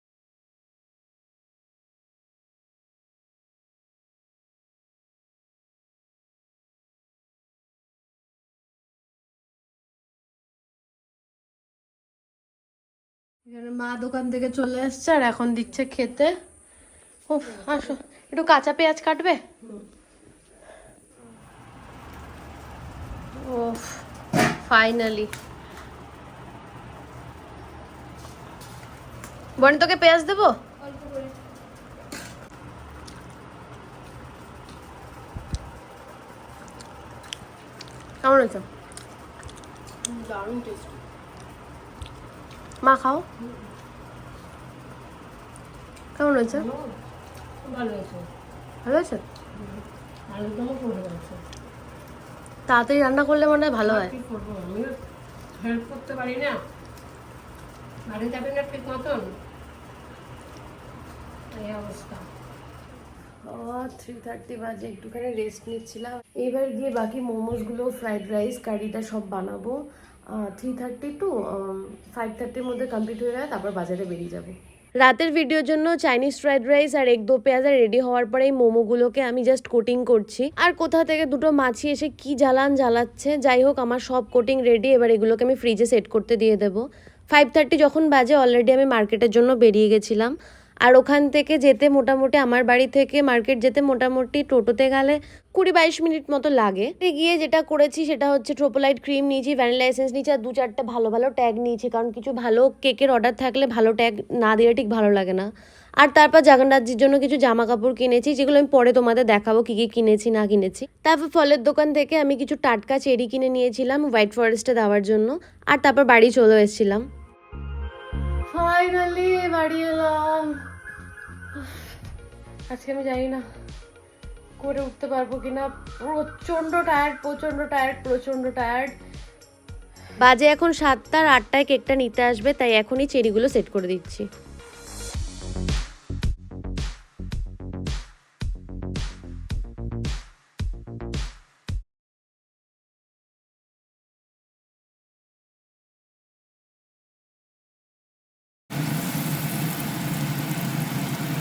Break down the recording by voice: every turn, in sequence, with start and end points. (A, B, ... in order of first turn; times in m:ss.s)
0:13.4-0:16.4 A
0:17.3-0:19.7 A
0:23.4-0:25.3 A
0:29.6-0:30.6 A
0:30.8-0:31.3 B
0:38.2-0:38.6 A
0:40.0-0:41.0 B
0:42.8-0:43.2 A
0:46.2-0:46.7 A
0:46.5-0:46.9 B
0:47.6-0:48.3 B
0:48.8-0:49.2 A
0:49.5-0:51.4 B
0:52.7-0:54.1 A
0:53.8-0:55.0 B
0:55.5-0:56.6 B
0:58.1-0:59.3 B
1:01.5-1:02.2 B
1:03.4-1:45.5 A
1:46.0-1:57.0 A
1:58.5-2:00.6 A
2:01.5-2:01.9 A
2:02.7-2:03.4 A
2:04.6-2:08.9 A
2:10.2-2:14.2 A